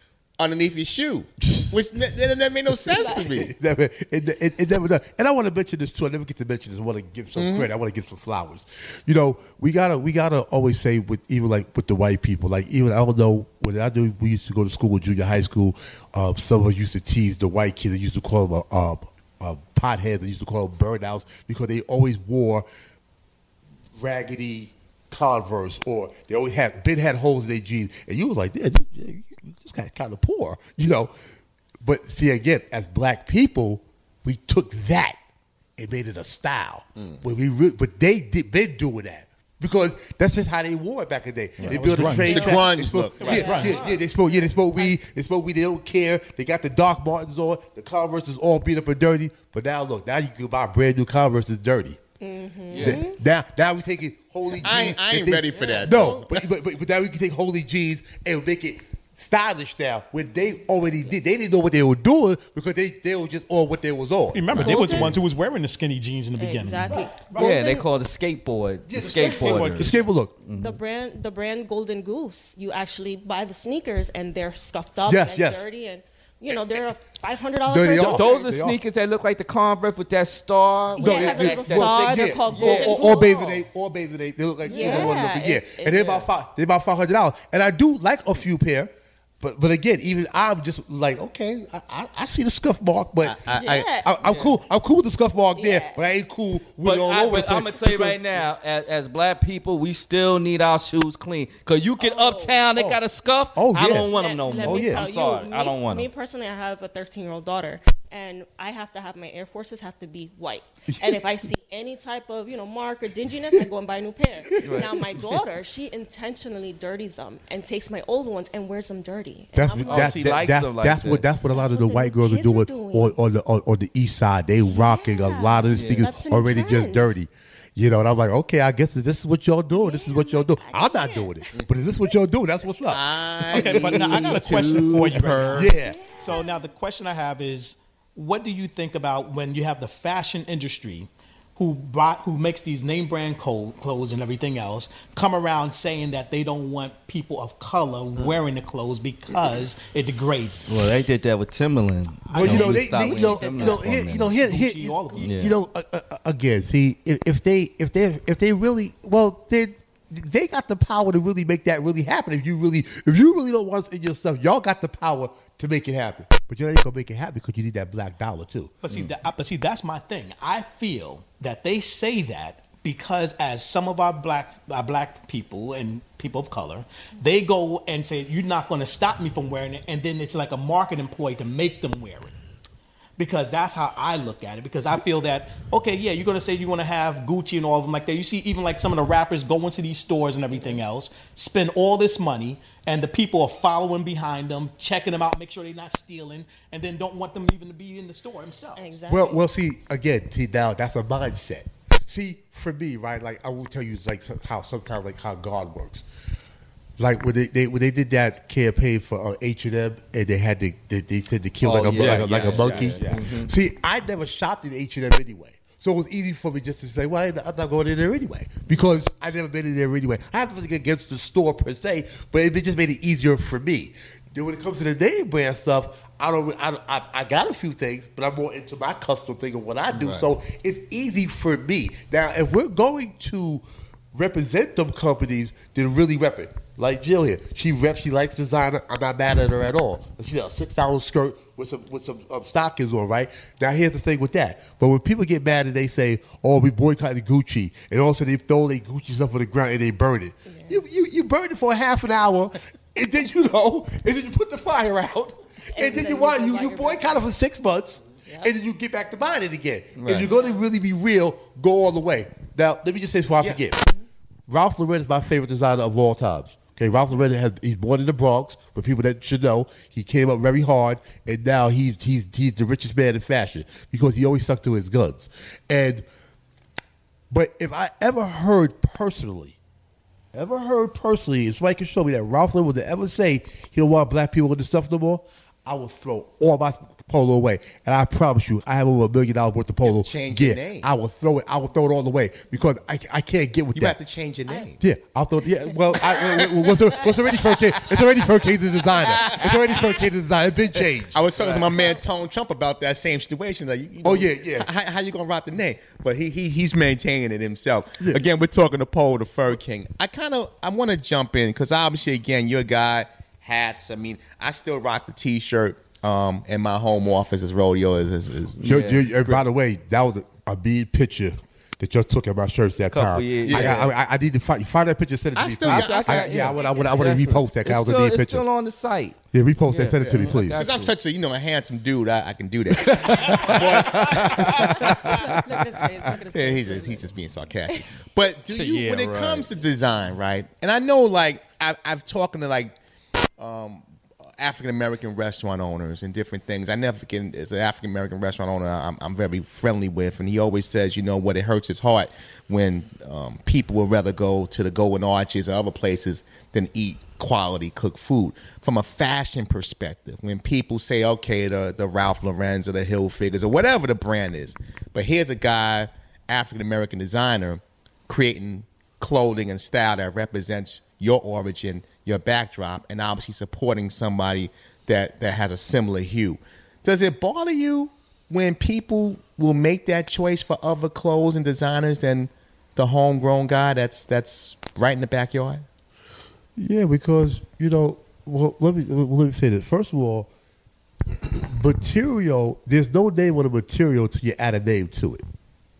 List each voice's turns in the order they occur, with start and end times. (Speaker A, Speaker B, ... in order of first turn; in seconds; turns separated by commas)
Speaker A: 0.4-3.5, Speaker B: 1.4-1.7, Speaker B: 2.7-22.6, Speaker C: 3.0-3.2, Speaker A: 7.3-7.7, Speaker B: 23.9-31.1, Speaker B: 31.8-35.2, Speaker B: 35.8-52.0, Speaker A: 41.6-43.7, Speaker D: 41.7-42.4, Speaker C: 42.2-42.6, Speaker D: 43.2-43.9, Speaker C: 43.2-44.0, Speaker C: 52.2-53.2, Speaker D: 52.7-53.0, Speaker B: 52.8-65.1, Speaker A: 54.6-56.4, Speaker C: 55.5-56.2, Speaker E: 64.3-67.1, Speaker C: 64.6-65.2, Speaker C: 66.4-67.9, Speaker B: 66.9-67.6, Speaker D: 67.3-70.8, Speaker B: 68.9-70.3, Speaker E: 68.9-70.1, Speaker C: 70.5-78.5, Speaker B: 75.0-75.6, Speaker B: 76.5-76.8, Speaker B: 77.7-78.8, Speaker D: 77.9-83.6, Speaker C: 81.0-83.6, Speaker B: 81.0-98.4, Speaker C: 84.6-86.3, Speaker D: 84.7-85.1, Speaker A: 93.2-94.0, Speaker C: 93.5-94.1, Speaker D: 94.2-94.5, Speaker C: 95.6-96.0, Speaker D: 96.8-106.1, Speaker C: 102.0-102.6, Speaker B: 102.7-103.0, Speaker B: 103.5-105.0, Speaker C: 104.1-120.5, Speaker B: 110.9-111.2, Speaker D: 114.6-114.9, Speaker B: 114.6-115.0, Speaker B: 119.5-134.4, Speaker D: 119.8-121.2, Speaker C: 121.5-123.2, Speaker C: 124.7-127.1, Speaker D: 125.7-126.0, Speaker C: 129.7-131.5, Speaker A: 132.9-135.7, Speaker E: 133.5-150.8, Speaker B: 135.5-136.1, Speaker C: 135.7-136.7, Speaker D: 150.7-154.3, Speaker E: 152.3-155.5, Speaker B: 152.4-168.8, Speaker D: 155.2-155.5, Speaker E: 168.8-182.3, Speaker E: 183.2-199.0, Speaker C: 198.8-199.4, Speaker B: 199.1-206.0, Speaker B: 207.0-263.8, Speaker D: 211.6-213.5, Speaker A: 211.9-213.2, Speaker D: 229.9-230.3, Speaker C: 250.5-250.8, Speaker C: 255.7-257.2, Speaker C: 258.3-258.5, Speaker D: 259.9-260.3, Speaker C: 260.2-260.6, Speaker B: 264.5-276.1, Speaker B: 277.3-279.6, Speaker B: 280.3-294.0, Speaker A: 289.8-290.9, Speaker A: 293.7-294.8, Speaker B: 294.8-301.2, Speaker A: 299.1-299.8, Speaker A: 301.1-319.4, Speaker D: 301.4-301.6, Speaker B: 304.0-304.7, Speaker D: 318.6-319.0, Speaker B: 318.6-328.4, Speaker D: 322.9-323.9, Speaker A: 323.4-323.9, Speaker A: 325.4-326.8, Speaker D: 325.7-330.9, Speaker B: 329.3-330.6, Speaker A: 330.0-335.1, Speaker B: 332.7-335.4, Speaker C: 334.5-337.1, Speaker A: 336.3-342.8, Speaker D: 338.5-339.5, Speaker A: 343.4-343.8, Speaker A: 344.4-385.6, Speaker B: 386.6-390.3, Speaker B: 391.2-395.2